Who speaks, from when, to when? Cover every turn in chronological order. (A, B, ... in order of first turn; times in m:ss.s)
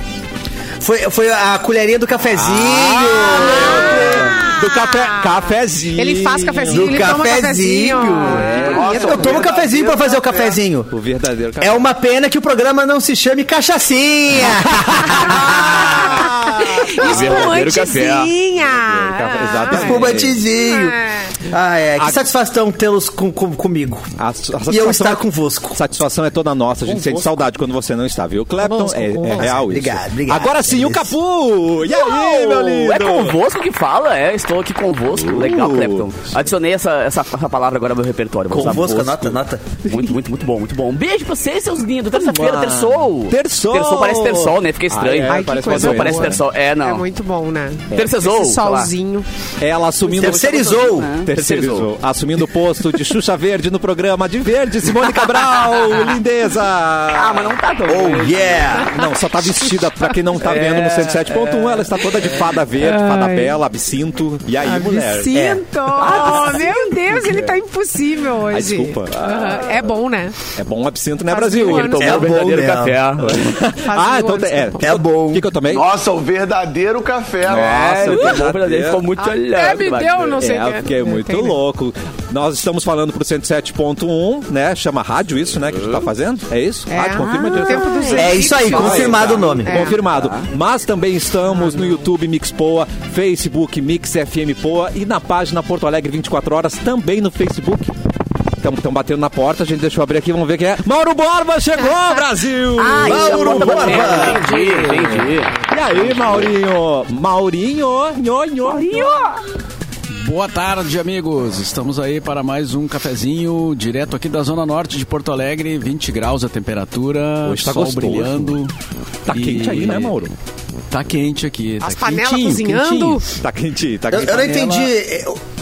0:00.8-0:04.3 A
0:02.3-0:07.1 B
0:03.4-0:05.4 C
0:05.9-0:09.4 C
0:06.7-0:10.9 A
0:08.2-0:09.4 B
0:08.8-0:10.6 D
0:10.9-0:11.9 B
0:11.6-0:15.8 A
0:14.7-0:17.5 B
0:15.2-0:21.3 C
0:17.0-0:18.3 E
0:18.6-0:20.4 B
0:19.7-0:24.1 A
0:22.0-0:22.3 B
0:24.2-0:33.4 B
0:24.7-0:25.8 A
0:28.6-0:29.5 C
0:29.2-0:31.1 A
0:31.9-0:39.1 E
0:35.1-0:36.1 B
0:38.5-0:39.6 A
0:38.5-0:40.1 B
0:39.8-0:47.0 E
0:42.1-0:46.4 B
0:45.2-0:49.2 C
0:47.9-0:48.9 E
0:49.6-0:57.6 B
0:50.0-0:51.9 E
0:50.1-0:51.1 A
0:55.2-0:55.9 E
0:57.1-0:58.9 E
0:57.8-0:58.9 A
0:58.8-1:05.4 B
1:00.4-1:02.0 E
1:02.8-1:03.5 C
1:04.6-1:10.3 C
1:05.3-1:05.6 A
1:06.0-1:07.5 E
1:08.5-1:09.5 B
1:10.5-1:12.4 B
1:11.3-1:12.3 C
1:11.6-1:13.5 E
1:12.0-1:13.0 A
1:13.2-1:15.9 B
1:13.8-1:14.9 C
1:14.8-1:15.6 A
1:15.7-1:17.8 D
1:17.4-1:19.1 B
1:17.4-1:20.4 E
1:19.2-1:21.6 C
1:20.4-1:37.9 B
1:26.9-1:30.0 C
1:28.1-1:29.8 A
1:28.9-1:29.4 E
1:30.1-1:30.4 E
1:31.6-1:32.0 C
1:38.6-1:43.7 B
1:42.8-1:45.5 E
1:42.9-1:44.4 A
1:43.7-1:45.3 F
1:45.7-1:49.2 B
1:48.6-1:49.4 E
1:50.1-1:58.7 F
1:57.4-1:58.6 B
1:59.2-2:00.3 B
1:59.3-2:00.1 F
2:00.9-2:03.2 F
2:01.8-2:03.2 C
2:03.4-2:04.6 B
2:04.1-2:05.4 A
2:04.3-2:04.9 F